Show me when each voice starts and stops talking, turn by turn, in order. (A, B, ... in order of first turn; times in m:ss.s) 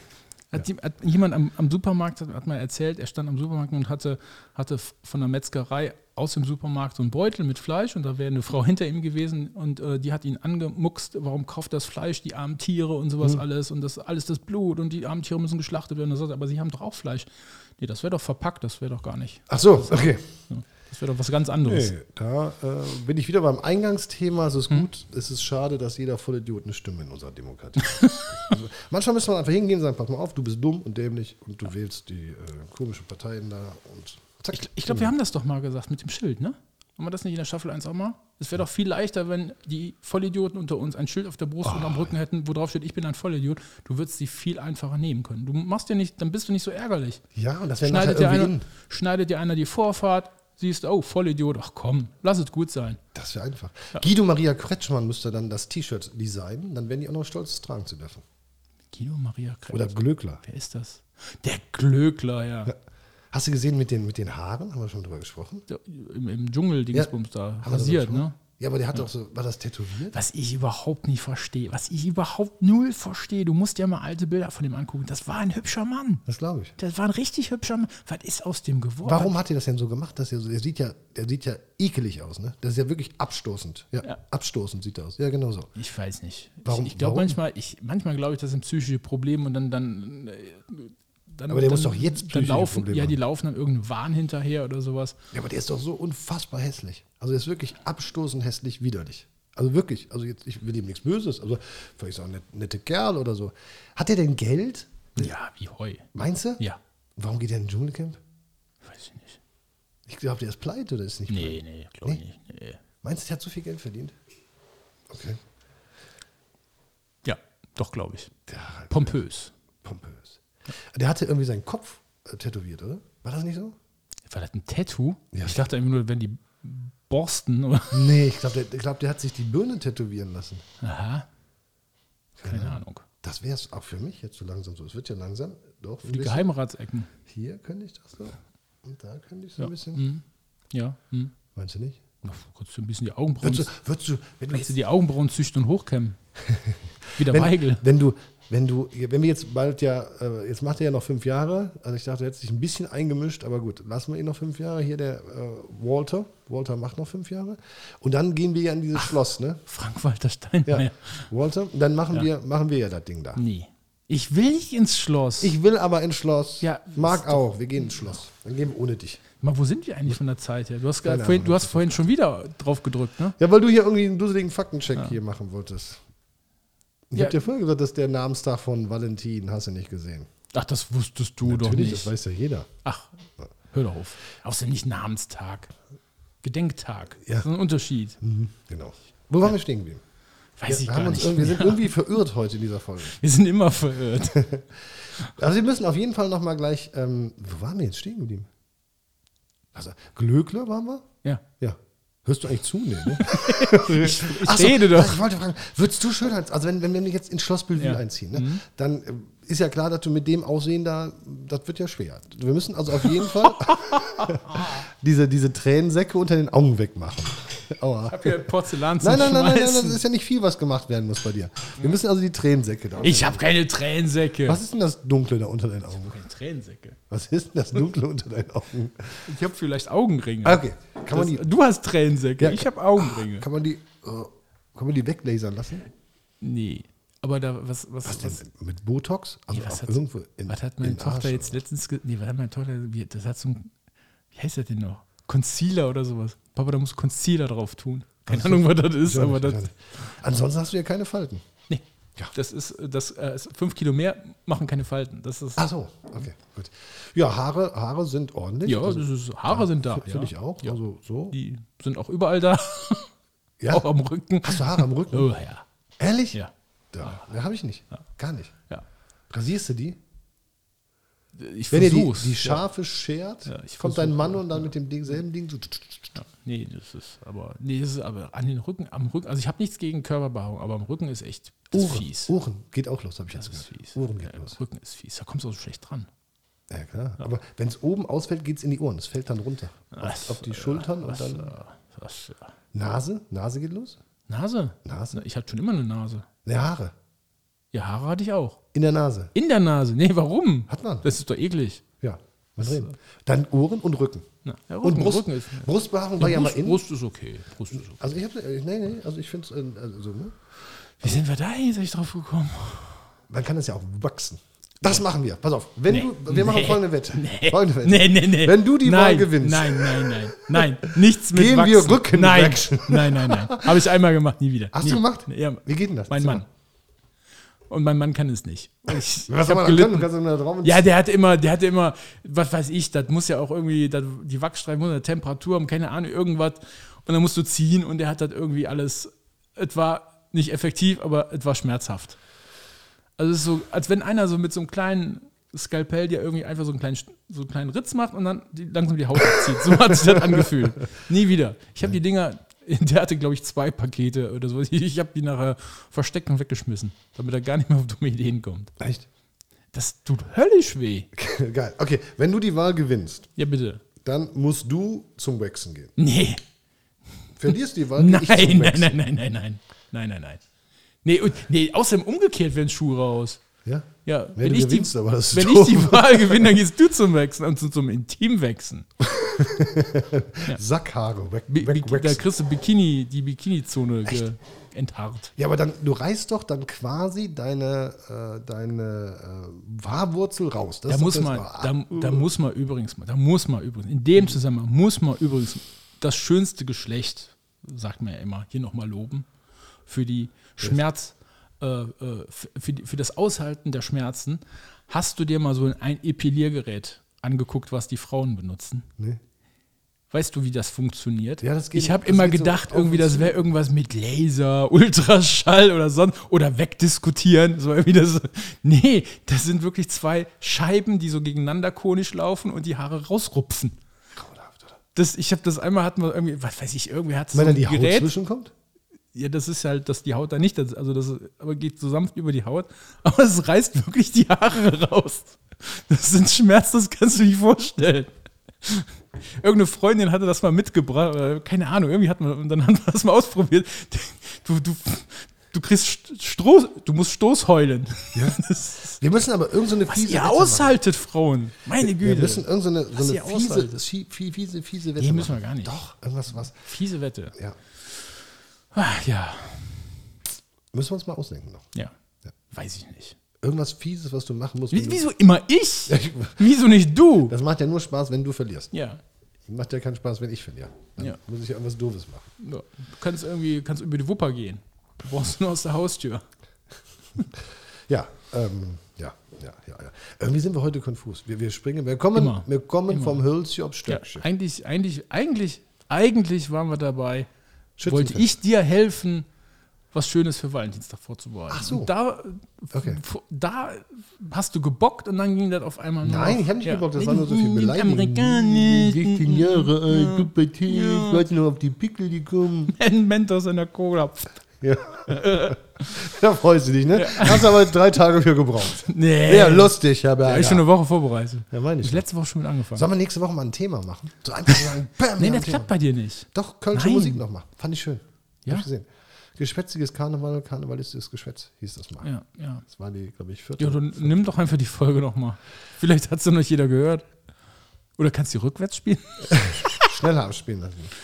0:00.5-0:21.9 A
0:19.5-0:20.3 B
0:21.6-0:35.1 B
0:28.0-0:28.2 A
0:34.5-0:47.2 A
0:41.6-0:42.1 B
0:47.4-0:48.7 B
0:47.8-0:53.0 A
0:53.1-0:58.2 B
0:58.9-1:02.7 A
0:59.7-1:00.4 B
1:03.3-1:05.7 B
1:05.7-1:08.4 A
1:07.6-1:10.2 B
1:10.1-1:16.2 A
1:16.3-1:16.7 B
1:16.8-1:19.3 A
1:19.0-1:25.7 B
1:25.8-1:35.2 A
1:26.6-1:27.4 B
1:31.5-1:33.2 B
1:35.3-1:45.3 B
1:45.2-1:46.1 A
1:46.1-1:46.6 B
1:47.2-1:48.2 B
1:48.8-1:49.4 A
1:50.1-1:52.2 B
1:51.3-1:52.8 A
1:53.0-1:54.1 B
1:55.1-1:55.4 B
1:57.2-1:58.3 A
1:58.5-1:59.2 B
1:58.9-1:59.5 A
1:59.8-2:03.8 B
2:04.3-2:08.1 A
2:05.3-2:05.7 B
2:07.9-2:10.6 B
2:10.8-2:11.3 A
2:12.4-2:16.5 B
2:12.4-2:13.0 A
2:16.0-2:17.1 A
2:17.3-2:20.0 B
2:19.6-2:21.4 A
2:21.5-2:22.0 B
2:22.2-2:23.7 A
2:23.4-2:24.7 B
2:24.5-2:26.2 A
2:26.5-2:39.6 B
2:27.2-2:27.8 A
2:39.7-2:41.3 A
2:40.7-2:43.4 B
2:43.4-2:45.6 A
2:45.4-2:49.2 B
2:46.6-2:48.1 A
2:49.4-2:53.4 A
2:51.0-2:52.0 B
2:53.4-2:56.0 B
2:57.1-3:00.3 B
3:00.5-3:02.1 A
3:01.4-3:02.7 B
3:02.8-3:03.1 A
3:03.7-3:05.7 A
3:06.4-3:08.2 A
3:08.2-3:10.0 B
3:10.6-3:12.0 A
3:10.7-3:13.2 B
3:13.1-3:14.5 A
3:14.3-3:18.5 B
3:19.7-3:21.1 B
3:21.6-3:43.4 B
3:23.1-3:25.2 A
3:27.8-3:28.6 A
3:33.1-3:34.8 A
3:38.1-3:40.0 A
3:43.0-3:44.6 A
3:44.4-3:46.2 B
3:45.9-3:47.0 A
3:47.1-3:49.3 B
3:49.3-3:53.5 A
3:50.4-3:51.5 B
3:52.4-3:55.9 B
3:56.4-3:58.4 A
3:58.0-4:01.6 B
3:59.5-4:03.7 A
4:04.3-4:09.7 A
4:08.3-4:11.4 B
4:11.7-4:15.6 A
4:15.6-4:21.4 B
4:18.6-4:20.8 A
4:21.3-4:23.1 A
4:23.6-4:23.9 B
4:23.7-4:25.6 A
4:24.4-4:25.3 B
4:26.0-4:26.4 B
4:26.9-4:28.5 B
4:29.3-4:30.0 B
4:31.3-4:32.6 A
4:31.7-4:36.2 B
4:33.5-4:34.7 A
4:36.2-4:42.3 A
4:41.7-4:44.6 B
4:43.4-4:46.1 A
4:46.7-4:51.5 B
4:49.9-4:52.5 A
4:52.7-4:54.0 B
4:54.3-4:56.3 A
4:54.8-4:55.2 B
4:56.4-4:56.9 B
4:57.7-4:58.6 A
4:58.7-4:59.3 B
4:59.4-5:01.8 A
5:00.7-5:01.1 B
5:02.0-5:04.3 B
5:02.6-5:02.9 A
5:04.4-5:08.0 A
5:04.8-5:06.8 B
5:07.8-5:10.4 B
5:11.0-5:13.0 A
5:13.3-5:23.7 B
5:15.9-5:26.5 A
5:24.7-5:26.4 B
5:27.7-5:30.1 A
5:29.3-5:30.9 B
5:30.6-5:42.2 A
5:43.2-5:58.7 A
5:49.4-5:50.5 B
5:58.8-5:59.1 B
5:59.7-6:01.1 A
6:01.2-6:03.3 B
6:03.4-6:03.8 A
6:04.0-6:05.9 B
6:06.0-6:06.4 A
6:07.4-6:09.0 B
6:08.0-6:10.4 A
6:11.0-6:13.4 A
6:13.7-6:16.6 B
6:14.1-6:18.9 A
6:19.0-6:22.2 B
6:21.5-6:25.3 A
6:25.4-6:32.3 B
6:30.9-6:39.3 A
6:39.9-6:48.9 A
6:50.1-7:03.8 A
6:51.4-6:53.4 B
7:04.2-7:04.8 B
7:05.0-7:08.1 A
7:07.3-7:08.5 B
7:09.1-7:29.0 A
7:28.1-7:28.4 B
7:29.0-7:30.8 B
7:29.9-7:33.8 A
7:31.8-7:36.6 B
7:35.0-7:35.8 A
7:36.5-7:37.4 A
7:38.7-7:39.9 A
7:40.7-7:41.7 B
7:42.5-7:43.2 A
7:43.4-7:45.0 B
7:44.7-7:47.3 A
7:45.9-7:46.5 B
7:47.3-7:48.7 B
7:48.7-7:49.0 A
7:49.5-7:52.3 B
7:52.4-7:56.2 A
7:57.9-8:04.2 B
8:02.2-8:03.2 A
8:03.9-8:07.3 A
8:07.8-8:08.3 B
8:07.9-8:09.3 A
8:09.9-8:21.3 A
8:11.5-8:11.9 B
8:12.7-8:13.0 B
8:16.0-8:22.7 B
8:22.7-8:24.3 A
8:24.6-8:30.7 B
8:25.1-8:25.6 A
8:26.9-8:27.7 A
8:28.7-8:32.9 A
8:31.5-8:32.0 B
8:32.8-8:35.7 B
8:34.5-8:37.2 A
8:36.3-8:42.1 B
8:42.0-8:42.6 A
8:42.7-8:44.3 B
8:43.6-8:47.1 A
8:48.0-8:50.0 A
8:49.3-8:50.9 B